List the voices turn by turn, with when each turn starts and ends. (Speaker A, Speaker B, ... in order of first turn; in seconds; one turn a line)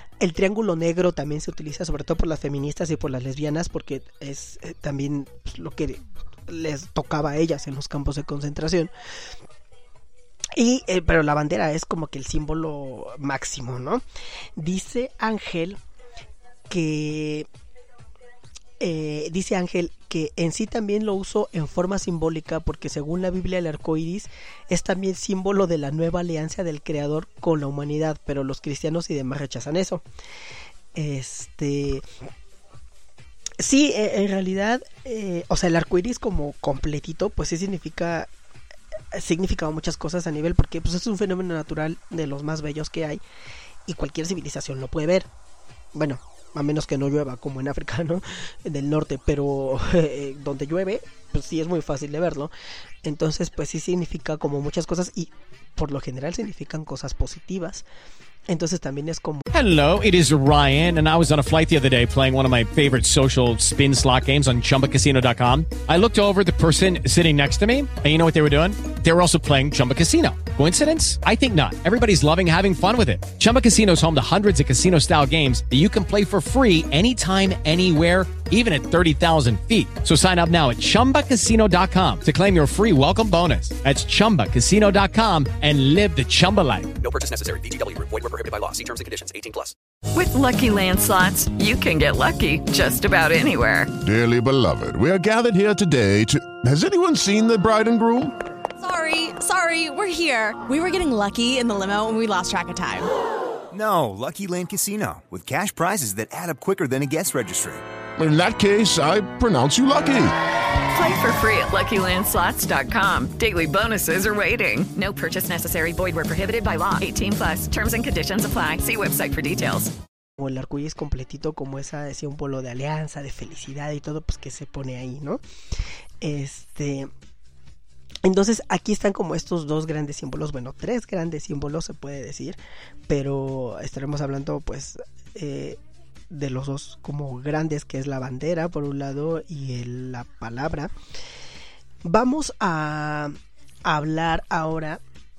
Speaker A: 0.2-8.9
Speaker A: 10.5-14.0
Speaker A: 14.6-15.8
Speaker A: 16.7-17.5
Speaker A: 18.8-30.0
Speaker A: 30.9-32.0
Speaker A: 33.6-38.3
Speaker A: 39.1-43.2
Speaker A: 43.9-45.3
Speaker A: 45.9-52.5
Speaker A: 53.0-57.8
Speaker A: 58.5-59.5
Speaker B: 59.5-86.9
Speaker C: 87.0-89.7
Speaker D: 90.1-93.9
Speaker E: 94.0-98.3
Speaker F: 98.8-103.1
Speaker G: 103.7-107.8
Speaker E: 108.2-110.4
Speaker D: 110.9-119.9
Speaker A: 120.4-125.4
Speaker A: 126.2-127.1
Speaker A: 128.2-140.9
Speaker A: 142.0-145.0